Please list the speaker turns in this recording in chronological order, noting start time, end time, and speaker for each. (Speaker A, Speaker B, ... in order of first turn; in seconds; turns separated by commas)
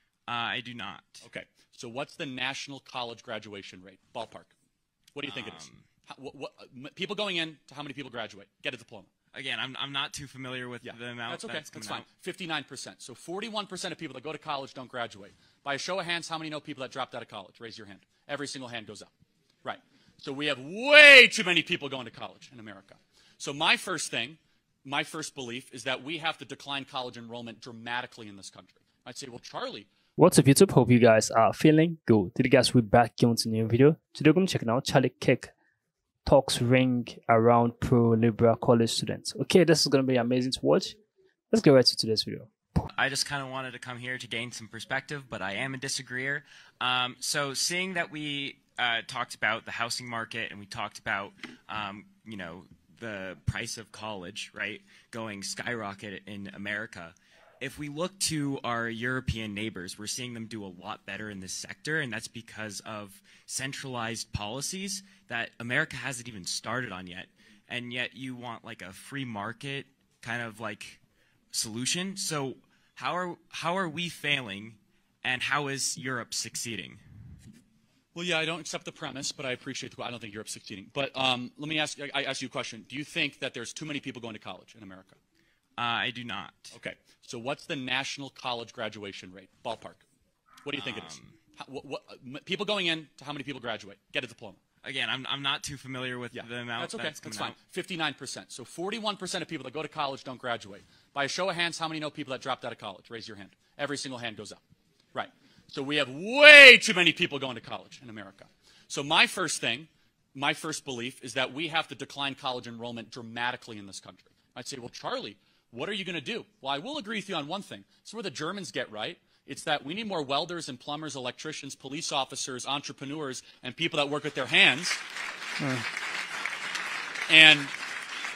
Speaker A: 0.3-1.2, Speaker B: 1.2-4.5, Speaker B: 5.1-9.1, Speaker A: 5.2-5.8, Speaker A: 9.3-12.1, Speaker B: 10.8-19.1, Speaker B: 19.6-29.9, Speaker C: 30.2-35.5, Speaker C: 36.2-41.0, Speaker C: 41.5-42.5, Speaker A: 42.9-71.0, Speaker A: 71.5-77.0, Speaker B: 78.1-85.2, Speaker A: 85.8-86.7, Speaker B: 86.7-90.0, Speaker B: 90.6-94.6, Speaker A: 90.7-91.3, Speaker A: 94.8-97.5, Speaker B: 96.3-104.6, Speaker B: 105.1-125.0, Speaker C: 125.6-125.8, Speaker B: 127.3-127.7